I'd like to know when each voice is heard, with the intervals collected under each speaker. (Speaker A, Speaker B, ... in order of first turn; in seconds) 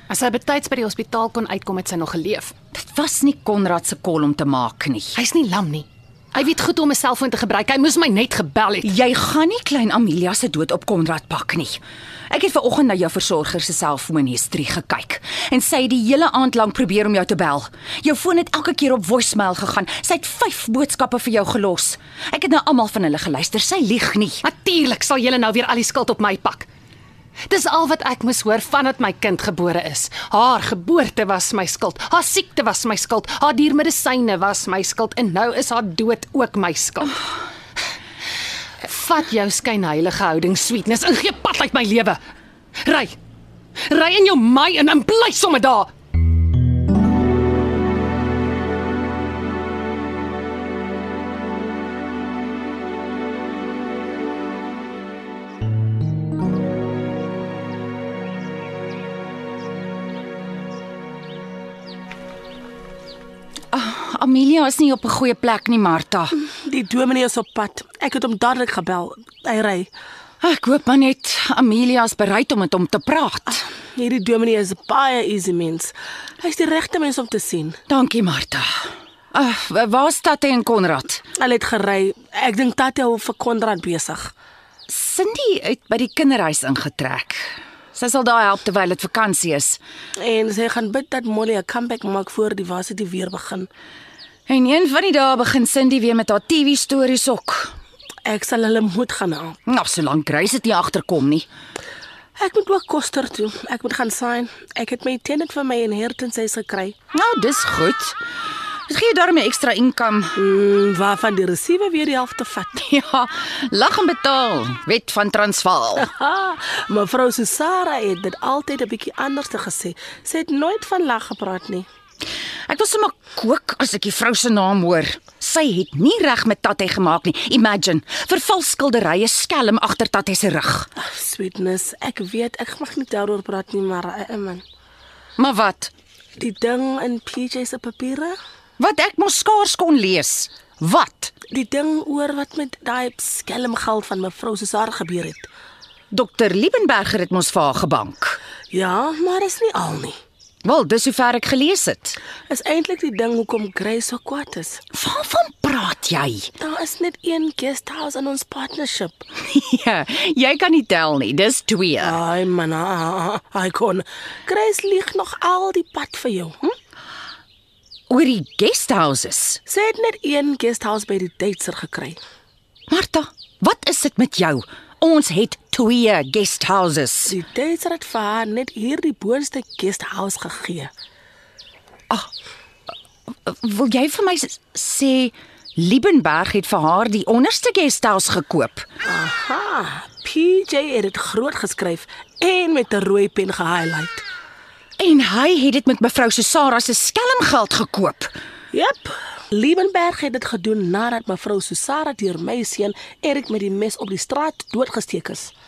Speaker A: 0.1-2.5, 5.2-8.9, 24.4-26.7, 27.5-37.2, 38.8-42.2, 42.8-43.2, 43.8-45.9
Speaker B: 2.7-5.2, 8.8-24.4, 63.7-66.3, 70.4-73.7, 77.9-81.2, 84.9-89.8, 94.5-97.7, 99.7-101.5, 107.1-108.2, 108.9-110.4, 112.8-116.1, 122.7-130.9, 135.4-135.9, 138.8-141.3, 146.1-148.4, 150.6-152.2, 154.9-156.5, 159.4-162.2, 168.1-169.6, 172.9-177.3, 183.5-188.8, 195.0-198.3
Speaker C: 66.5-69.9, 74.0-77.8, 81.4-84.3, 90.2-93.7, 98.2-99.6, 102.4-107.0, 110.4-112.7, 116.0-121.9, 131.0-134.6, 136.4-138.4, 141.5-145.5, 148.7-150.2, 152.5-154.8, 156.6-159.2, 162.0-166.7, 169.7-172.2, 177.3-180.9, 189.1-194.2, 198.7-205.5